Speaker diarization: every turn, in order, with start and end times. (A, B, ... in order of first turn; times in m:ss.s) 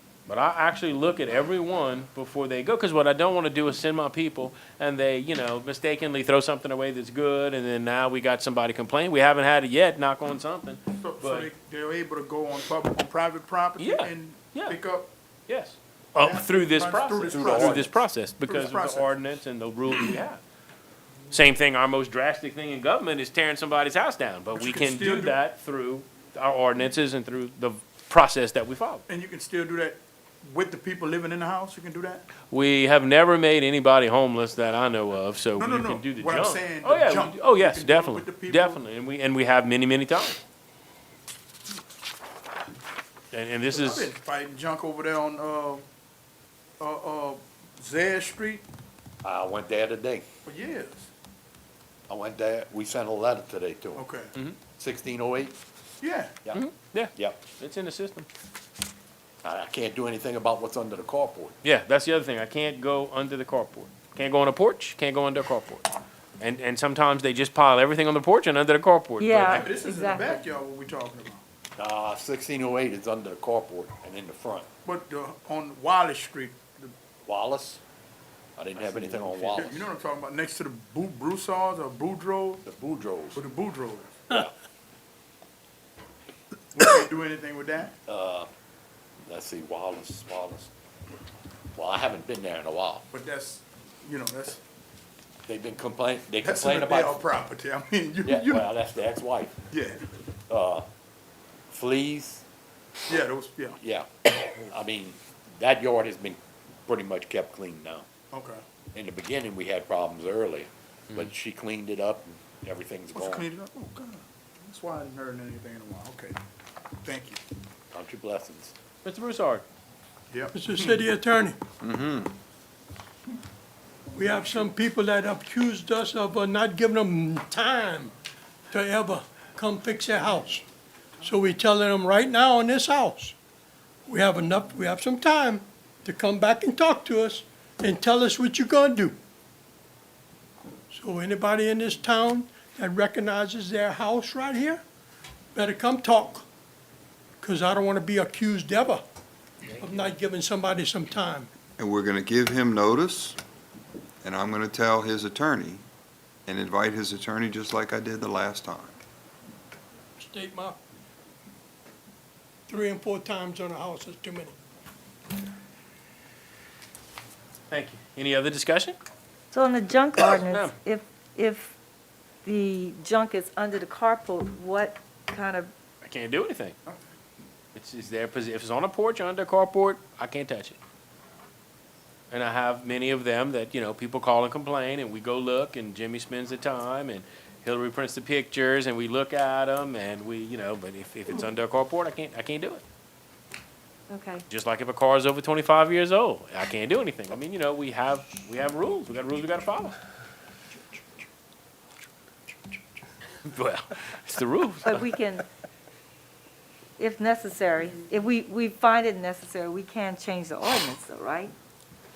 0:00.3-0:11.5 A
0:11.0-0:15.1 B
0:13.8-0:14.8 A
0:15.5-0:20.4 A
0:16.2-0:19.2 B
0:17.3-0:17.8 C
0:21.3-0:29.0 A
0:24.5-0:25.4 B
0:29.1-0:32.2 B
0:32.5-0:40.4 A
0:35.6-0:38.8 B
0:43.3-0:44.1 A
0:43.7-0:45.8 B
0:46.8-0:48.6 B
0:49.2-0:50.3 C
0:50.5-0:51.1 B
0:52.1-0:54.1 C
0:54.0-0:54.3 B
0:54.8-0:55.6 C
0:56.0-0:56.4 B
0:56.5-0:58.3 A
0:59.4-1:01.6 C
1:01.6-1:05.9 A
1:06.4-1:09.7 A
1:09.2-1:10.4 D
1:09.5-1:11.4 B
1:11.8-1:14.7 C
1:14.8-1:16.9 B
1:17.3-1:17.8 C
1:18.6-1:19.9 C
1:19.5-1:22.6 B
1:22.6-1:23.4 C
1:23.4-1:24.2 B
1:26.7-1:27.9 B
1:28.1-1:28.5 C
1:29.3-1:30.7 C
1:31.8-1:33.0 C
1:33.1-1:34.6 B
1:35.5-1:37.3 C
1:36.4-1:38.8 B
1:38.2-1:39.6 C
1:39.7-1:40.0 B
1:40.5-1:40.9 C
1:41.7-1:42.4 C
1:43.1-1:43.8 B
1:43.8-1:48.1 C
1:48.3-1:48.6 B
1:49.0-1:53.5 C
1:53.1-1:56.4 B
1:57.0-1:57.4 B
1:57.9-1:58.7 C
1:59.0-1:59.6 A
2:00.3-2:01.0 B
2:00.5-2:01.6 E
2:01.8-2:02.3 F
2:04.1-2:08.1 E
2:08.7-2:10.6 E
2:11.2-2:13.3 E
2:14.1-2:19.2 E
2:20.9-2:24.8 E
2:25.5-2:26.4 E
2:27.4-2:29.0 E
2:29.8-2:31.5 E
2:31.8-2:33.4 F
2:34.2-2:35.8 F
2:36.5-2:39.0 F
2:40.2-2:40.8 E
2:42.7-2:44.6 E
2:47.7-2:49.0 A
2:49.5-2:51.8 D
2:50.4-2:50.7 A
2:52.4-2:55.7 D
2:56.0-2:56.8 A
2:57.8-3:00.8 A
3:02.3-3:12.8 A
3:14.1-3:14.4 D
3:14.5-3:20.0 A
3:23.4-3:25.0 A
3:24.8-3:25.5 D
3:27.0-3:31.5 D